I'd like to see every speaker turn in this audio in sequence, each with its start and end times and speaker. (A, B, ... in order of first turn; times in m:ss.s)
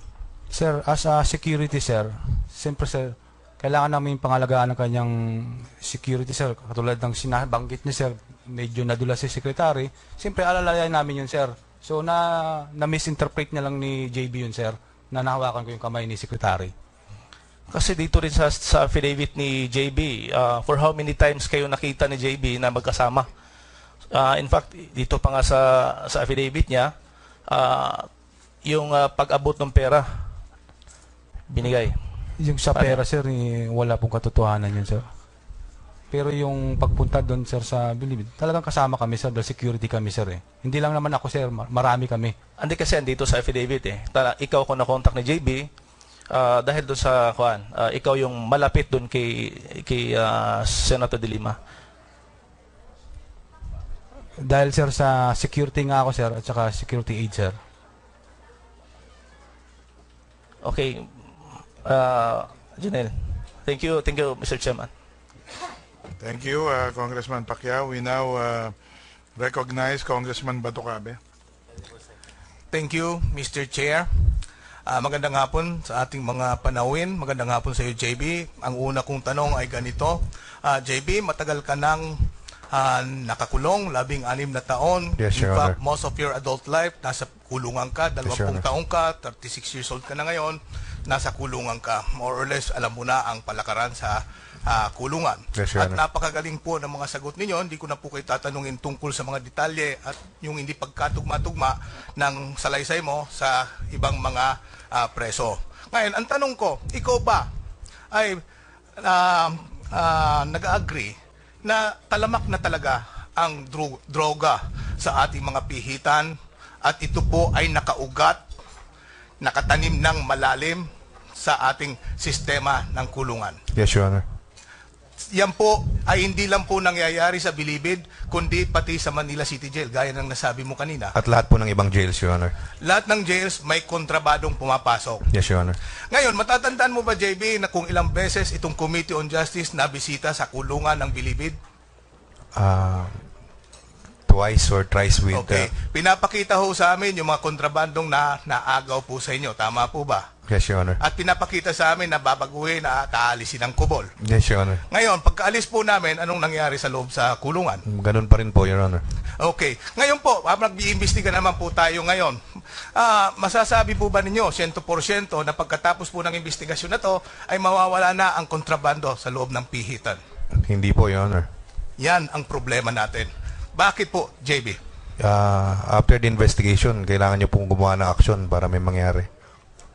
0:00.5-0:16.7 A
0:17.7-0:23.3 B
0:24.1-0:26.9 B
0:27.5-0:28.1 B
0:28.6-0:30.4 B
0:31.5-0:32.0 B
0:32.4-0:35.1 A
0:32.7-0:33.0 B
0:36.1-0:42.4 A
0:42.6-0:45.7 B
0:46.3-0:51.6 B
0:54.4-0:57.6 A
1:00.6-1:01.2 B
1:01.8-1:04.9 B
1:06.2-1:08.8 C
1:09.4-1:11.2 C
1:12.7-1:14.2 D
1:14.9-1:47.5 D
1:25.2-1:25.8 E
1:28.2-1:28.6 E
1:35.5-1:36.0 E
1:48.1-1:48.4 D
1:49.0-1:58.4 D
1:59.4-2:00.9 D
2:01.4-2:03.6 D
2:03.7-2:04.2 E
2:05.3-2:11.1 D
2:11.1-2:12.6 E
2:12.8-2:15.2 D
2:15.3-2:15.8 E
2:16.1-2:21.6 D
2:22.6-2:23.2 E
2:24.3-2:25.7 E
2:25.3-2:30.3 D
2:30.5-2:31.0 E
2:31.0-2:34.1 D
2:34.2-2:34.8 E
2:34.9-2:37.8 D
2:37.9-2:39.0 E
2:39.4-2:50.2 D
2:50.6-2:51.5 E
2:52.0-2:54.8 D
2:55.2-2:59.3 E